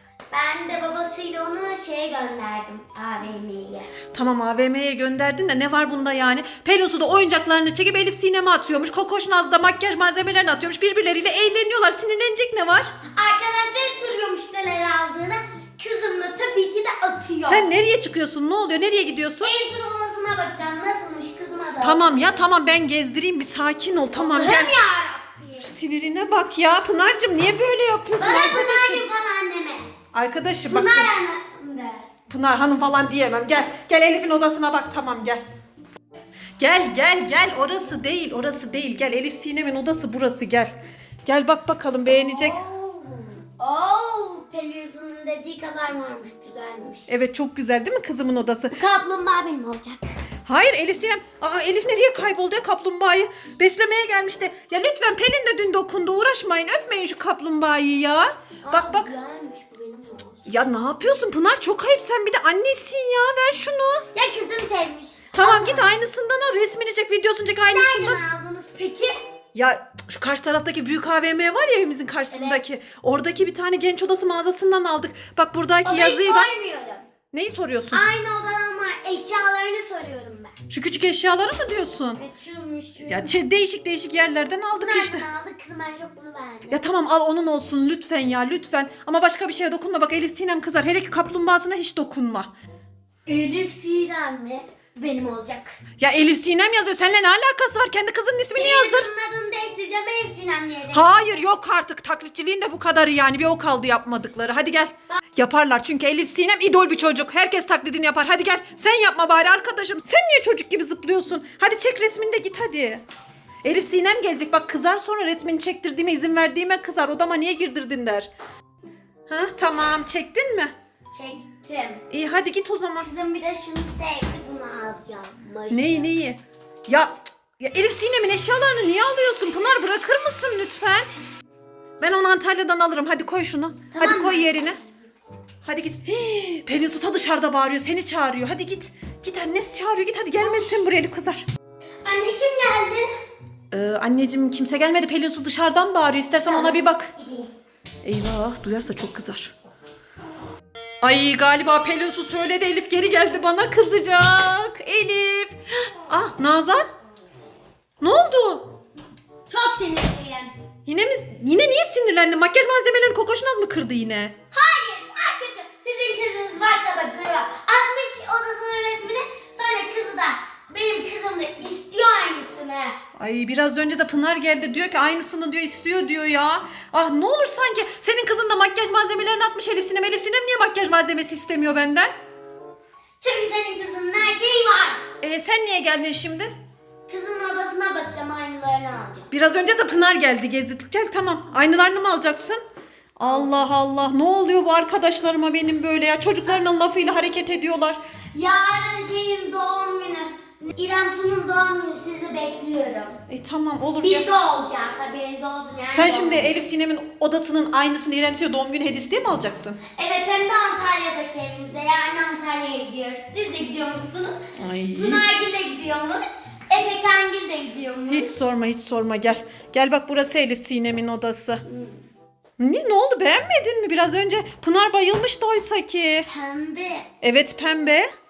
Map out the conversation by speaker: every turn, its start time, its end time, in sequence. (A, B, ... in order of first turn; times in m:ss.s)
0:00.3-0:03.9 A
0:04.1-0:12.9 B
0:13.1-0:17.6 A
0:17.4-0:19.5 B
0:19.4-0:22.8 A
0:21.8-0:24.7 B
0:24.1-0:25.7 A
0:25.6-0:29.0 B
0:28.2-0:29.9 A
0:30.1-0:31.1 B
0:30.6-0:32.0 A
0:32.3-0:35.4 B
0:36.6-0:40.7 B
0:41.2-0:42.6 B
0:42.1-0:47.1 A
0:47.1-0:48.8 B
0:48.7-0:50.2 A
0:50.4-0:59.1 B
0:58.6-1:00.4 A
1:00.4-1:04.0 B
1:04.1-1:05.9 A
1:05.3-1:08.2 B
1:07.7-1:09.1 A
1:09.5-1:16.5 B
1:12.3-1:12.6 A
1:15.8-1:17.0 A
1:17.3-1:18.0 B
1:17.9-1:20.5 A
1:20.7-1:22.2 B
1:22.2-1:23.3 A
1:23.1-1:25.2 B
1:24.8-1:26.8 A
1:26.7-1:32.5 B
1:33.3-1:35.8 A
1:36.0-1:39.1 B
1:38.6-1:41.2 A
1:40.9-1:53.0 B
1:53.6-1:58.3 B
1:59.3-2:00.7 B
2:01.1-2:02.0 A
2:02.1-2:03.1 B
2:03.0-2:06.1 A
2:05.7-2:11.1 B
2:12.0-2:14.8 B
2:13.9-2:14.8 A
2:15.6-2:21.4 B
2:20.4-2:20.8 A
2:22.0-2:23.1 A
2:23.7-2:27.1 B
2:26.4-2:27.5 A
2:28.0-2:29.5 B
2:31.0-2:36.9 B
2:38.0-2:38.7 B
2:39.5-2:40.5 A
2:40.8-2:44.3 B
2:44.5-2:52.9 A
2:53.2-3:02.1 B
3:03.2-3:05.0 A
3:05.2-3:06.5 B
3:07.1-3:09.3 A
3:09.3-3:12.6 B
3:13.2-3:18.0 B
3:13.3-3:13.7 A
3:18.3-3:23.2 A
3:23.3-3:24.3 B
3:24.0-3:26.6 A
3:25.9-3:29.8 B
3:30.0-3:34.4 A
3:34.6-3:35.2 B
3:34.9-3:38.3 A
3:38.1-3:41.6 B
3:41.7-3:42.0 A
3:42.6-3:46.3 B
3:46.3-3:47.0 A
3:47.2-3:48.1 B